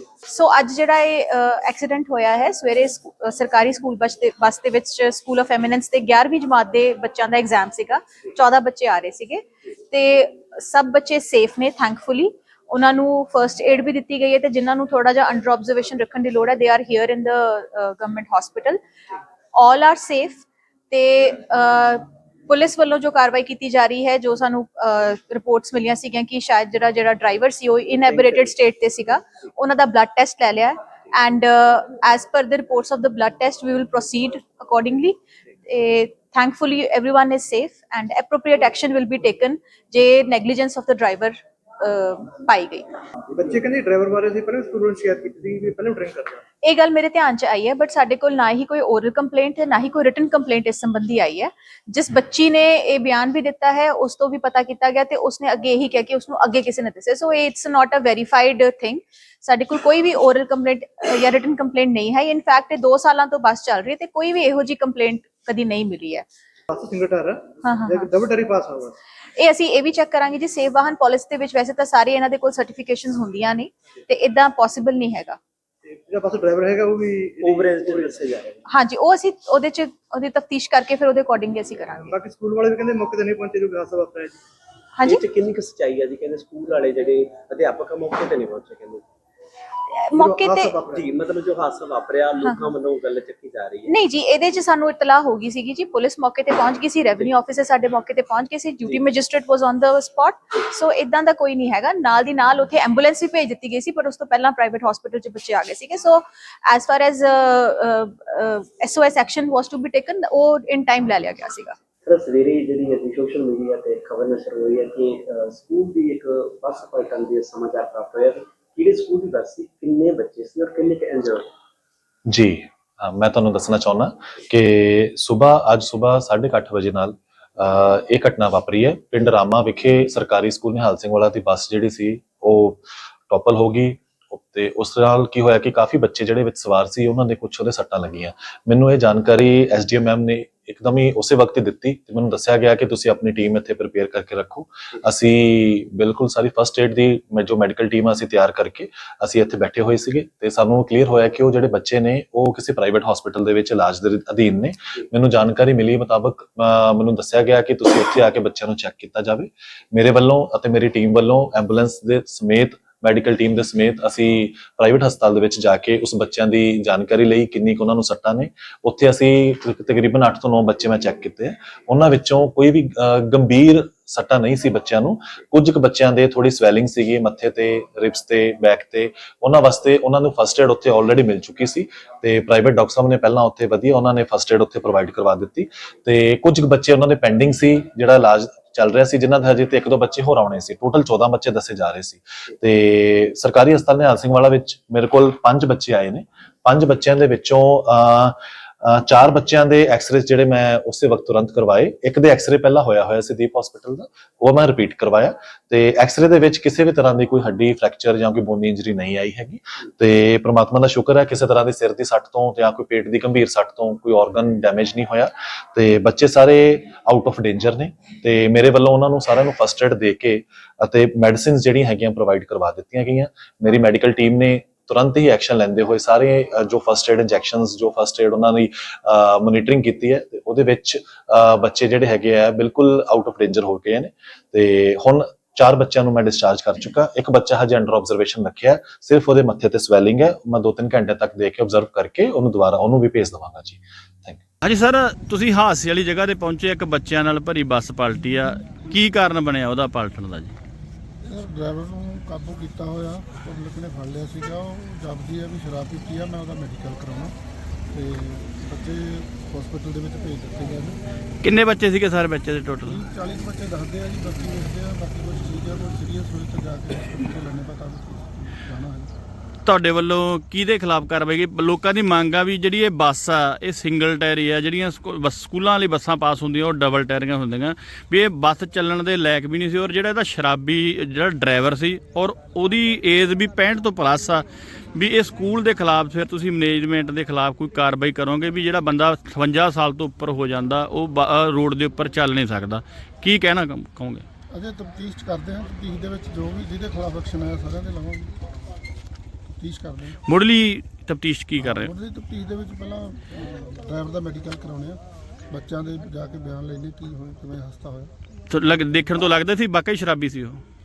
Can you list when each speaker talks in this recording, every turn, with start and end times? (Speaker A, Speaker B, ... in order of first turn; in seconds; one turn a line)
Speaker A: 0.2-18.8
Speaker A: 19.6-43.0
Speaker B: 28.0-28.5
Speaker C: 43.3-46.4
Speaker A: 46.6-66.2
Speaker C: 66.7-68.9
Speaker A: 67.6-68.1
Speaker A: 69.4-75.4
Speaker C: 76.1-78.1
Speaker B: 77.4-78.6
Speaker A: 78.7-82.1
Speaker C: 82.0-84.3
Speaker A: 85.0-85.2
Speaker B: 85.1-89.0
Speaker A: 90.0-90.8
Speaker C: 90.2-91.0
Speaker B: 90.9-93.9
Speaker A: 92.4-92.7
Speaker A: 93.8-111.8
Speaker B: 112.0-121.5
Speaker D: 122.3-244.4
Speaker E: 244.6-250.6
Speaker F: 251.2-257.3
Speaker F: 257.9-261.0
Speaker E: 261.4-263.0
Speaker F: 262.9-269.1
Speaker E: 269.6-294.2
Speaker F: 294.5-298.3
Speaker F: 299.5-300.2
Speaker E: 300.3-301.9
Speaker F: 301.6-308.1
Speaker E: 308.5-310.6